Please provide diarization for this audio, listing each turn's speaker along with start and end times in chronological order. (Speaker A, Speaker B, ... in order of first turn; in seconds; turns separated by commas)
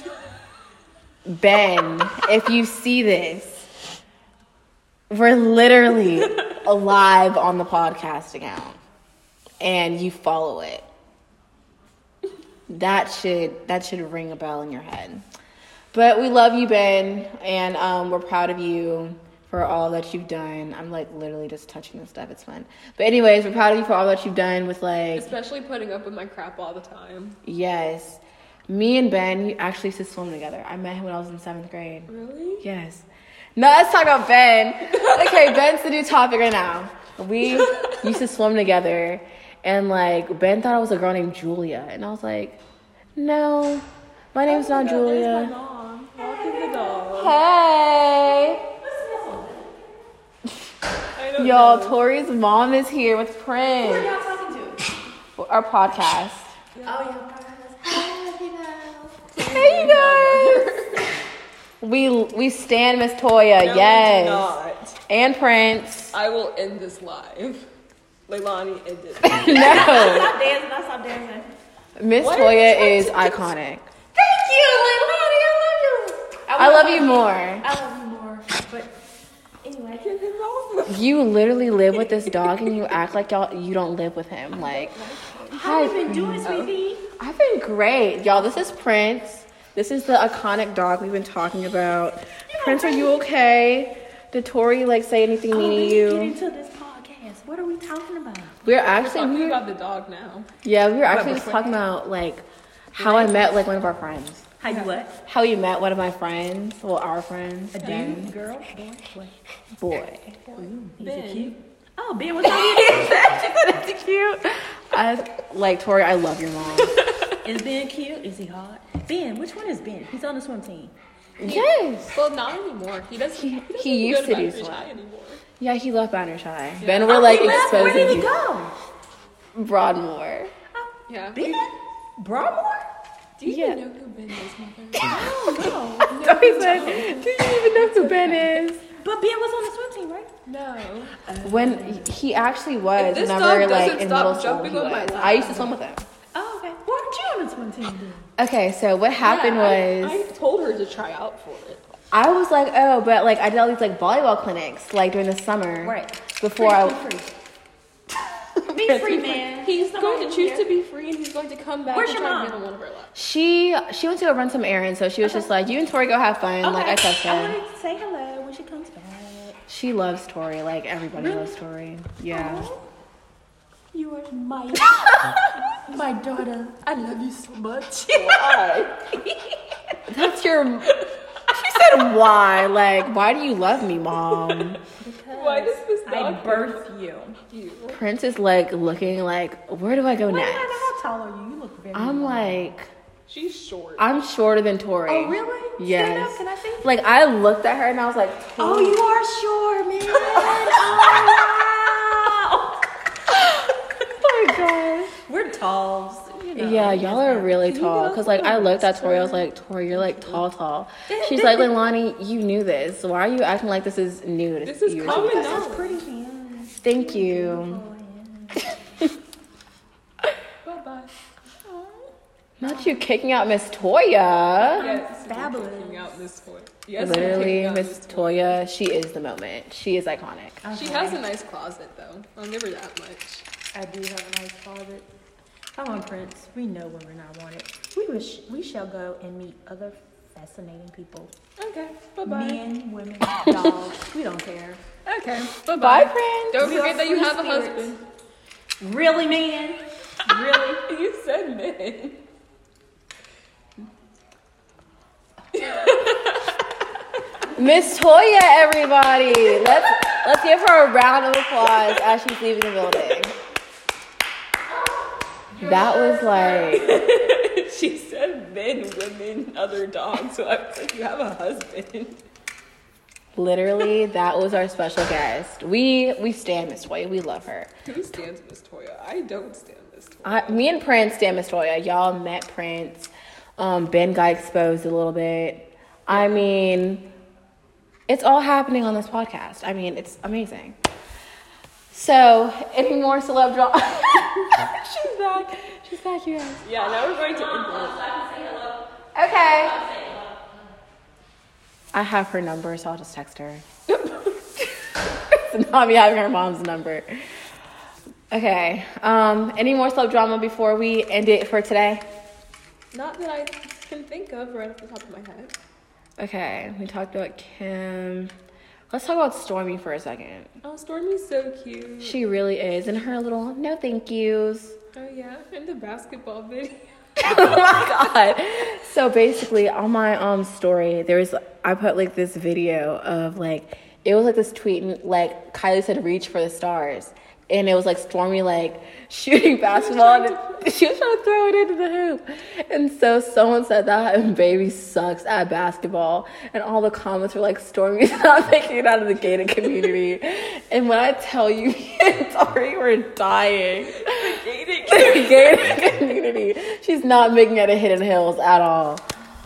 Speaker A: 1.2-3.7, Speaker A: 5.1-8.8, Speaker A: 9.6-10.8, Speaker A: 12.7-15.2, Speaker A: 15.9-25.3, Speaker B: 25.1-27.4, Speaker A: 27.4-32.1, Speaker B: 32.1-32.6, Speaker A: 32.6-42.6, Speaker B: 34.9-35.3, Speaker B: 37.4-38.1, Speaker A: 43.1-45.5, Speaker B: 44.5-47.4, Speaker C: 46.2-46.9, Speaker A: 47.1-48.6, Speaker C: 48.8-49.7, Speaker B: 51.1-52.0, Speaker A: 51.4-54.1, Speaker C: 53.8-54.9, Speaker A: 55.4-56.5, Speaker B: 56.7-57.0, Speaker C: 56.8-59.2, Speaker B: 59.3-61.1, Speaker A: 59.4-60.7, Speaker A: 61.8-64.5, Speaker B: 63.6-65.0, Speaker A: 65.1-66.1, Speaker B: 66.1-67.7, Speaker B: 68.3-70.0, Speaker A: 69.2-70.3, Speaker C: 69.5-71.5, Speaker A: 72.0-73.9, Speaker B: 72.2-73.3, Speaker C: 74.1-78.9, Speaker A: 76.5-77.6, Speaker C: 79.6-80.2, Speaker B: 80.0-81.1, Speaker A: 80.8-84.9, Speaker B: 82.2-82.7, Speaker B: 84.5-85.6, Speaker C: 85.2-87.0, Speaker A: 85.5-86.5, Speaker B: 86.4-86.7, Speaker A: 87.2-96.3, Speaker C: 92.5-93.2, Speaker C: 95.5-98.6, Speaker A: 98.6-99.6, Speaker B: 98.9-100.5, Speaker A: 100.6-104.5, Speaker C: 101.0-101.8, Speaker C: 103.0-103.5, Speaker C: 104.6-105.2, Speaker B: 104.7-105.0, Speaker A: 105.2-108.3, Speaker C: 107.7-109.4, Speaker A: 109.8-110.4, Speaker B: 110.5-111.6, Speaker C: 110.5-113.8, Speaker A: 112.7-117.0, Speaker C: 117.4-120.9, Speaker A: 121.4-122.2, Speaker B: 121.4-125.4, Speaker A: 123.3-124.9, Speaker A: 125.6-128.3, Speaker B: 126.8-128.3, Speaker C: 127.0-128.7, Speaker A: 129.5-130.5, Speaker C: 130.7-132.9, Speaker B: 131.1-131.7, Speaker B: 133.4-135.3, Speaker A: 133.4-133.8, Speaker C: 135.0-140.3, Speaker B: 136.1-137.2, Speaker A: 136.2-138.8, Speaker B: 140.4-141.2, Speaker C: 141.2-142.1, Speaker A: 141.4-146.1, Speaker B: 142.9-145.7, Speaker C: 146.3-148.3, Speaker A: 148.4-150.3, Speaker B: 149.2-151.8, Speaker A: 152.1-157.0, Speaker C: 155.8-157.3, Speaker C: 158.7-160.7, Speaker A: 158.8-159.4, Speaker B: 159.6-163.2, Speaker C: 161.9-162.6, Speaker A: 163.1-167.6, Speaker C: 165.2-165.5, Speaker C: 166.6-169.6, Speaker A: 169.7-172.7, Speaker C: 171.1-171.6, Speaker C: 172.2-172.8, Speaker C: 173.9-179.3, Speaker B: 178.1-179.2, Speaker A: 180.1-180.9, Speaker B: 180.8-181.1, Speaker A: 181.5-184.8, Speaker B: 184.3-184.6, Speaker C: 184.9-187.4, Speaker B: 185.3-186.9, Speaker B: 187.5-188.0, Speaker A: 187.9-190.9, Speaker C: 190.3-192.7, Speaker A: 191.9-192.9, Speaker B: 193.3-194.1, Speaker A: 194.0-199.0, Speaker C: 195.1-196.9, Speaker C: 198.6-202.9, Speaker A: 203.3-205.2, Speaker C: 205.1-209.2, Speaker B: 206.5-207.0, Speaker A: 206.6-215.7, Speaker B: 207.6-209.4, Speaker B: 211.1-211.7, Speaker B: 214.6-216.0, Speaker C: 215.0-218.8, Speaker A: 216.8-217.8, Speaker B: 220.6-221.1, Speaker C: 221.6-222.1, Speaker A: 222.6-224.9, Speaker C: 222.6-223.0, Speaker B: 224.6-228.6, Speaker C: 224.7-226.2, Speaker A: 227.0-230.6, Speaker C: 227.0-227.6, Speaker C: 230.6-231.2, Speaker B: 230.7-233.4, Speaker C: 233.7-235.1, Speaker C: 235.7-241.3, Speaker B: 241.6-242.6, Speaker C: 242.2-244.8, Speaker A: 243.4-243.7, Speaker B: 245.1-248.0, Speaker A: 245.8-246.8, Speaker C: 246.6-248.0, Speaker C: 248.8-250.8, Speaker B: 250.8-252.2, Speaker B: 255.5-256.6, Speaker A: 257.5-263.3, Speaker A: 265.6-267.0, Speaker B: 265.6-272.2, Speaker A: 273.3-277.7, Speaker B: 277.9-280.6, Speaker A: 280.2-287.1, Speaker B: 286.1-286.4, Speaker A: 288.1-290.8, Speaker A: 291.9-296.6, Speaker B: 296.6-298.1, Speaker A: 299.1-299.9, Speaker A: 301.9-303.6, Speaker A: 305.1-307.3, Speaker A: 308.3-312.0, Speaker B: 312.9-315.5, Speaker A: 316.2-318.3, Speaker A: 318.9-320.5, Speaker B: 320.6-322.2, Speaker A: 322.0-324.8, Speaker B: 324.9-327.8, Speaker A: 327.2-359.0, Speaker B: 339.6-340.7, Speaker B: 353.9-355.9